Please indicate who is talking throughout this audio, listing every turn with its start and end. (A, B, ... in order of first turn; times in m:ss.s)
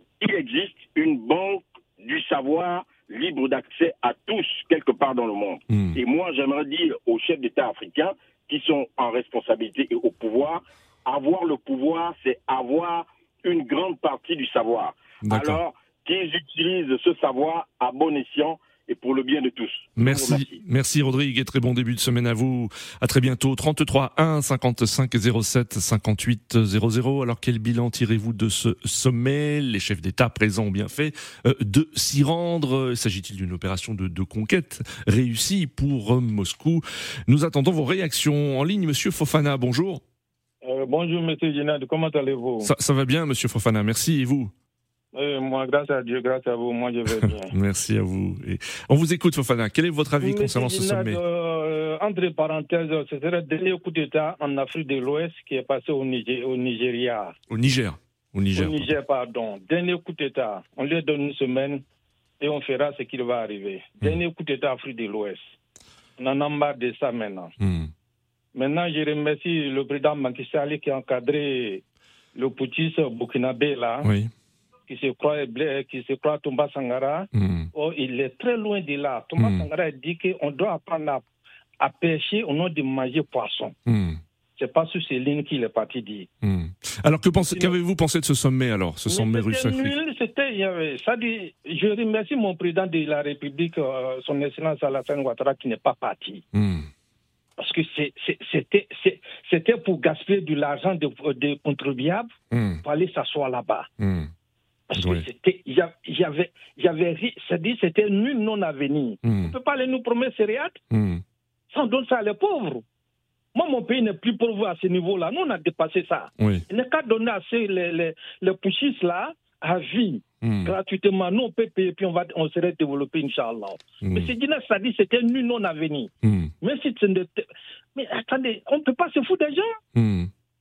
0:00.2-0:20.6 A
0:05.7-0:06.0 B
0:15.2-0:15.6 B
0:20.0-0:40.0 B
0:40.6-0:42.7 C
0:42.6-0:44.5 B
0:45.1-0:47.5 C
0:47.0-0:51.2 B
0:50.2-0:57.3 C
0:57.5-0:58.9 B
0:58.5-1:01.8 C
1:02.4-1:05.6 C
1:06.2-1:07.5 C
1:07.6-1:07.9 B
1:08.5-1:11.8 C
1:12.3-1:14.1 C
1:14.0-1:14.3 B
1:14.9-1:21.2 C
1:17.3-1:17.7 B
1:19.4-1:19.7 B
1:21.8-1:23.8 C
1:23.8-1:24.2 B
1:24.6-1:26.3 C
1:26.4-1:29.9 B
1:27.4-1:27.8 C
1:29.1-1:36.4 C
1:36.5-1:36.9 B
1:37.6-1:42.3 C
1:42.5-1:42.8 B
1:42.8-1:43.9 C
1:44.0-1:44.3 B
1:44.9-1:50.8 C
1:44.9-1:45.2 B
1:49.2-1:49.5 B
1:50.9-1:51.2 B
1:51.7-1:52.8 C
1:53.5-2:09.8 C
1:56.4-1:56.6 B
2:00.4-2:00.7 B
2:04.0-2:04.3 B
2:06.2-2:06.5 B
2:09.9-2:10.3 B